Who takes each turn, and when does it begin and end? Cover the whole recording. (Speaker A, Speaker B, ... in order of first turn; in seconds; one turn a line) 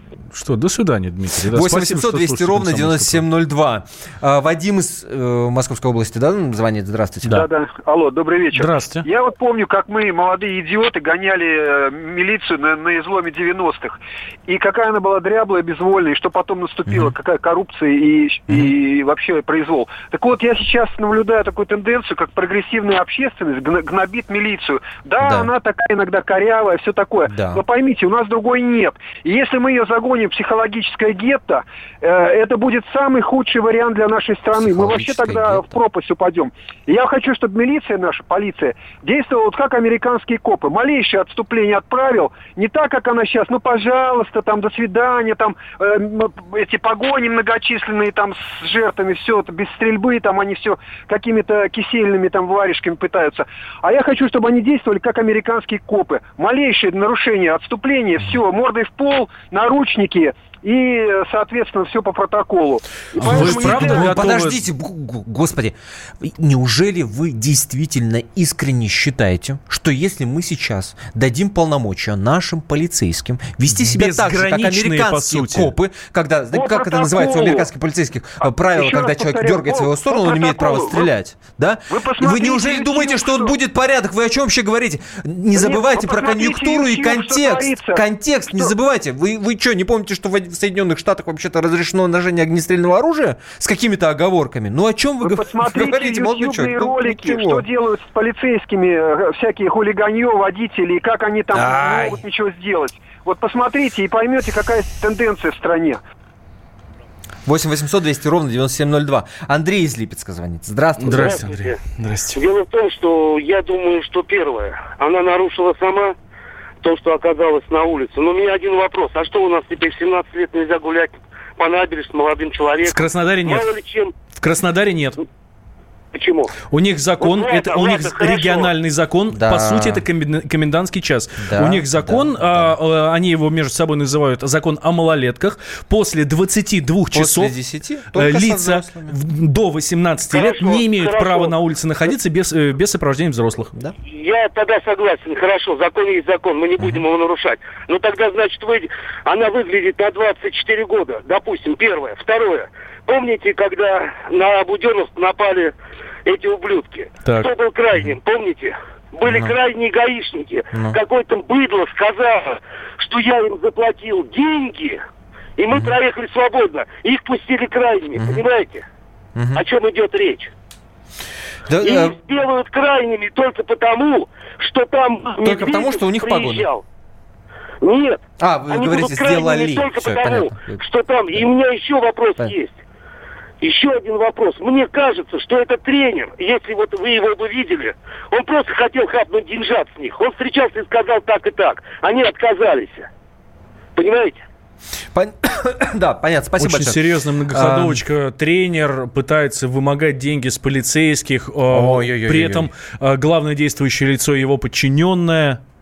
Speaker A: 0.3-3.2
Speaker B: 1.5-7.5
Speaker C: 7.2-64.2
Speaker A: 8.5-9.1
Speaker B: 25.2-25.5
Speaker B: 27.3-27.6
Speaker B: 34.6-35.8
Speaker A: 63.1-64.6
Speaker B: 63.2-97.6
Speaker A: 73.7-75.7
Speaker C: 76.5-77.7
Speaker C: 78.4-81.1
Speaker C: 81.9-83.5
Speaker C: 85.5-88.7
Speaker C: 95.2-106.0
Speaker B: 101.5-102.2
Speaker B: 107.5-111.4
Speaker A: 111.0-112.4
Speaker D: 111.2-111.8
Speaker D: 112.3-116.1
Speaker D: 116.8-124.1
Speaker A: 122.8-123.7
Speaker A: 124.3-125.2
Speaker D: 126.1-126.5
Speaker A: 126.7-137.5
Speaker D: 127.2-128.7
Speaker B: 129.3-130.0
Speaker B: 131.4-132.8
Speaker B: 137.1-139.2
Speaker A: 138.1-143.7
Speaker D: 140.3-141.5
Speaker D: 144.1-155.7
Speaker B: 146.8-147.0
Speaker D: 156.2-165.0
Speaker B: 159.2-159.6
Speaker B: 160.7-161.0
Speaker D: 165.6-168.8
Speaker B: 165.7-166.0
Speaker B: 168.1-168.4
Speaker B: 169.3-169.6
Speaker D: 169.5-170.5
Speaker B: 171.7-172.2
Speaker D: 171.8-176.8
Speaker B: 175.4-176.7
Speaker D: 177.8-182.8
Speaker B: 178.4-181.5
Speaker D: 183.6-193.1
Speaker D: 193.9-194.4
Speaker B: 195.1-198.0
Speaker A: 196.6-205.6
Speaker B: 201.7-202.7